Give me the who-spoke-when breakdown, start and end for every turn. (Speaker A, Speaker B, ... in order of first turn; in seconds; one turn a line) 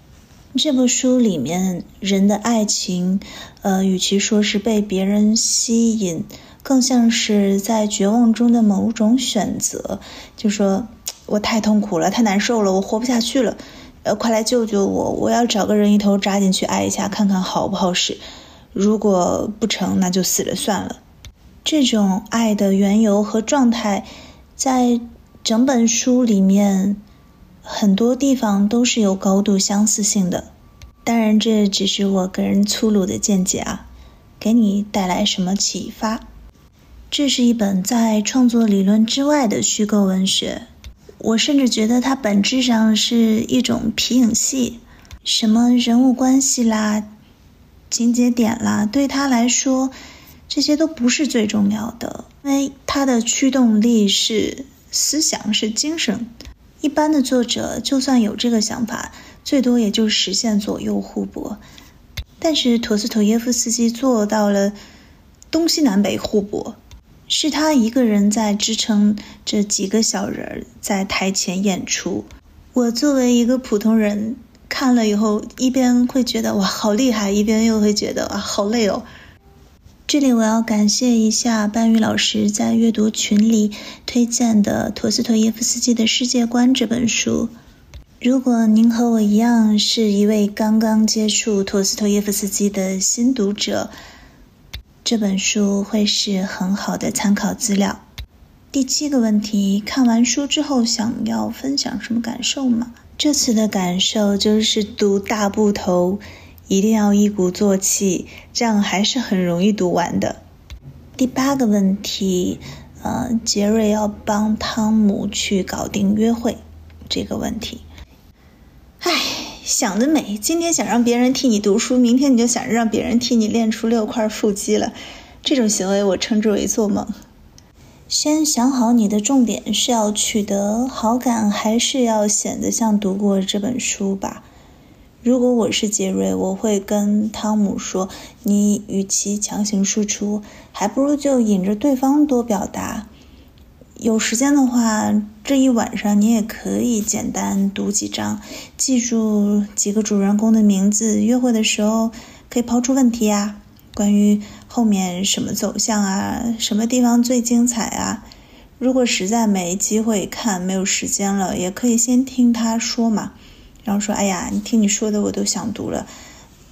Speaker A: 0.5-18.2
Speaker A: 18.7-21.0
Speaker A: 21.6-27.0
Speaker A: 27.6-30.5
Speaker A: 31.1-33.9
Speaker A: 34.4-36.3
Speaker A: 37.1-40.7
Speaker A: 41.2-47.1
Speaker A: 47.9-50.0
Speaker A: 50.5-61.6
Speaker A: 62.4-64.8
Speaker A: 65.5-79.1
Speaker A: 80.1-87.5
Speaker A: 88.2-93.9
Speaker A: 95.0-98.0
Speaker A: 98.7-110.4
Speaker A: 111.2-117.8
Speaker A: 119.0-127.1
Speaker A: 128.1-134.5
Speaker A: 135.2-143.1
Speaker A: 144.0-166.1